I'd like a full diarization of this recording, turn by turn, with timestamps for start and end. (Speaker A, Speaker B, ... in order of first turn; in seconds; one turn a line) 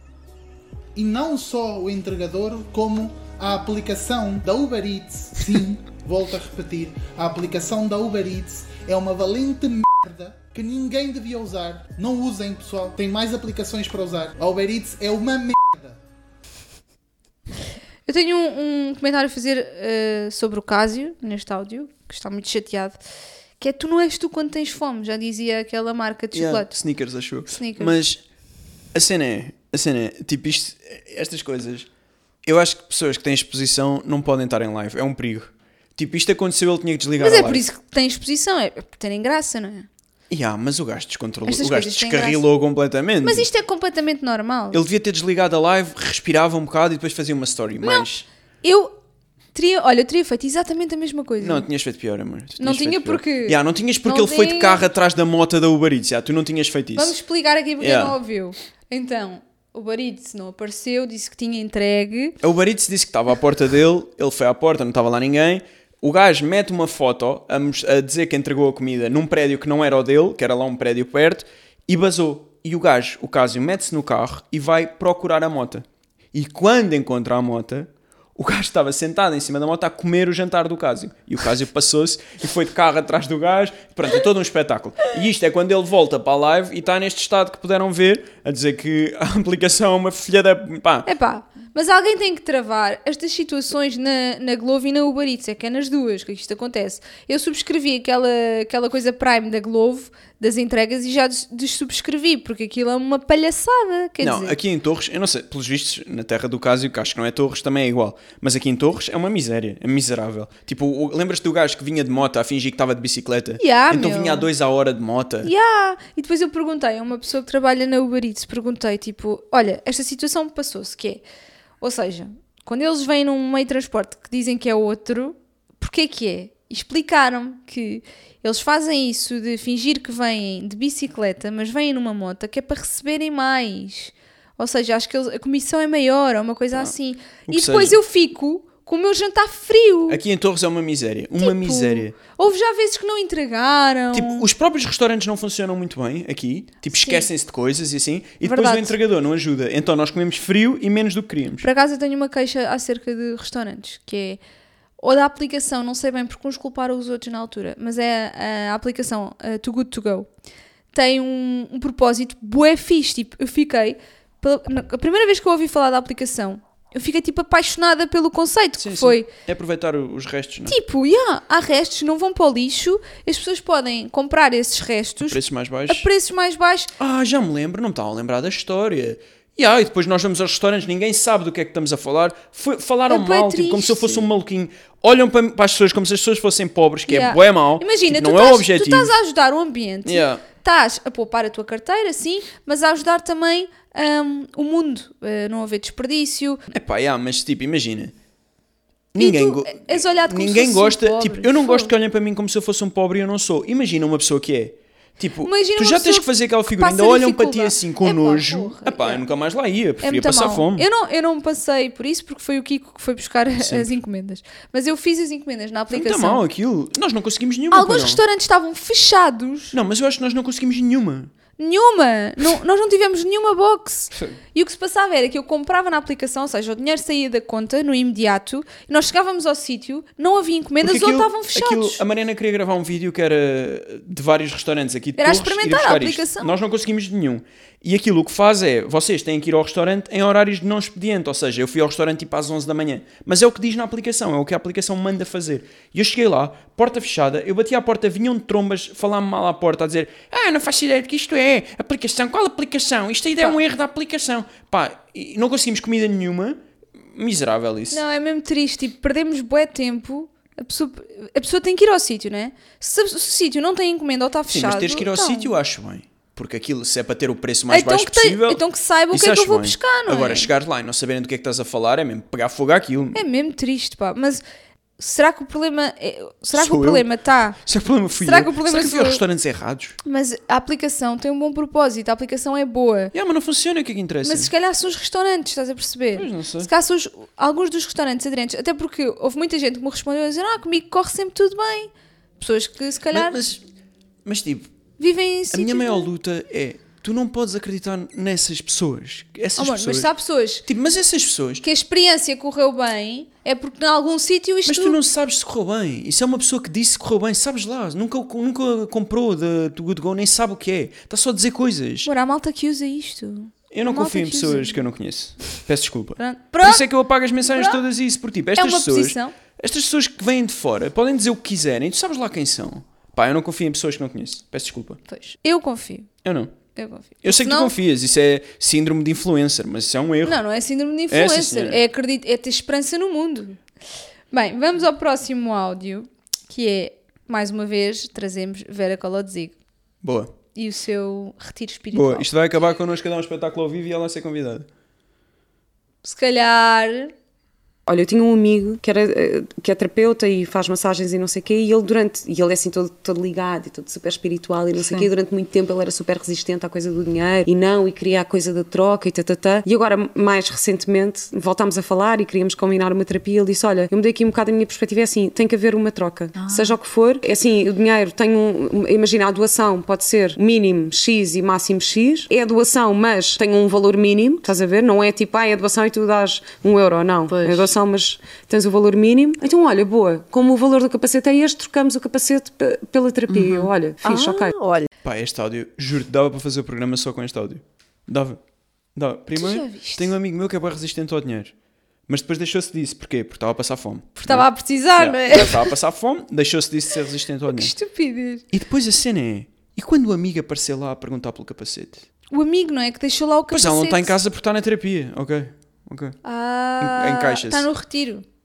Speaker A: 0.9-16.0
Speaker B: 18.1-23.0
Speaker B: 23.6-26.7
Speaker C: 26.3-28.2
Speaker B: 27.5-27.9
Speaker C: 28.9-31.9
Speaker C: 32.5-37.6
Speaker B: 37.2-39.9
Speaker C: 40.3-43.5
Speaker B: 41.5-42.4
Speaker B: 43.2-44.8
Speaker C: 44.7-48.3
Speaker B: 47.8-48.1
Speaker B: 48.6-49.0
Speaker B: 49.5-51.7
Speaker C: 51.4-57.2
Speaker B: 52.6-54.9
Speaker B: 57.0-62.4
Speaker C: 57.8-58.2
Speaker C: 62.4-91.1
Speaker B: 91.1-104.6
Speaker C: 104.2-115.5
Speaker B: 113.6-114.5
Speaker B: 115.4-121.2
Speaker B: 121.8-140.2
Speaker C: 137.5-138.0
Speaker C: 140.1-142.2
Speaker B: 141.4-144.5
Speaker C: 144.1-151.7
Speaker B: 146.9-147.3
Speaker B: 148.4-149.0
Speaker B: 151.6-154.4
Speaker B: 155.0-160.3
Speaker B: 160.9-169.3
Speaker C: 168.8-170.8
Speaker B: 170.7-176.9
Speaker C: 175.3-176.1
Speaker C: 177.0-189.1
Speaker B: 183.1-184.3
Speaker B: 187.1-196.6
Speaker C: 190.1-190.4
Speaker C: 196.7-198.1
Speaker C: 199.1-210.9
Speaker B: 199.2-201.9
Speaker B: 205.4-209.2
Speaker B: 210.0-216.4
Speaker C: 213.6-213.9
Speaker C: 215.9-218.2
Speaker B: 217.7-219.8
Speaker C: 219.7-221.3
Speaker B: 221.6-232.0
Speaker C: 230.8-258.0
Speaker B: 235.2-236.6
Speaker B: 257.9-265.5
Speaker C: 264.5-273.2
Speaker B: 267.7-270.5
Speaker B: 273.1-274.4
Speaker B: 275.0-277.6
Speaker C: 276.6-277.1
Speaker C: 277.6-280.0
Speaker B: 278.2-279.2
Speaker B: 280.0-283.1
Speaker C: 283.1-284.5
Speaker B: 284.2-293.4
Speaker C: 286.1-286.7
Speaker C: 293.1-293.6
Speaker C: 294.2-294.7
Speaker B: 295.0-296.1
Speaker C: 295.5-300.1
Speaker B: 299.6-300.6
Speaker C: 300.6-301.6
Speaker B: 301.6-305.0
Speaker C: 304.7-312.1
Speaker B: 312.1-314.8
Speaker C: 313.7-325.0
Speaker B: 316.2-316.9
Speaker B: 317.5-317.8
Speaker B: 318.6-319.4
Speaker B: 325.1-326.1
Speaker C: 326.2-326.6
Speaker B: 326.8-327.8
Speaker C: 327.2-330.4
Speaker B: 330.2-333.6
Speaker C: 331.1-331.8
Speaker B: 334.3-339.6
Speaker C: 340.0-340.3
Speaker B: 340.6-342.3
Speaker C: 341.9-344.7
Speaker B: 346.0-347.1
Speaker D: 347.9-384.6
Speaker E: 377.3-377.7
Speaker E: 383.3-384.9
Speaker C: 385.0-388.4
Speaker C: 389.0-391.5
Speaker B: 389.3-390.1
Speaker C: 392.1-397.7
Speaker B: 394.2-395.7
Speaker B: 397.5-398.4
Speaker C: 398.5-402.0
Speaker B: 402.3-404.1
Speaker C: 403.5-406.2
Speaker B: 406.2-408.2
Speaker C: 406.8-407.7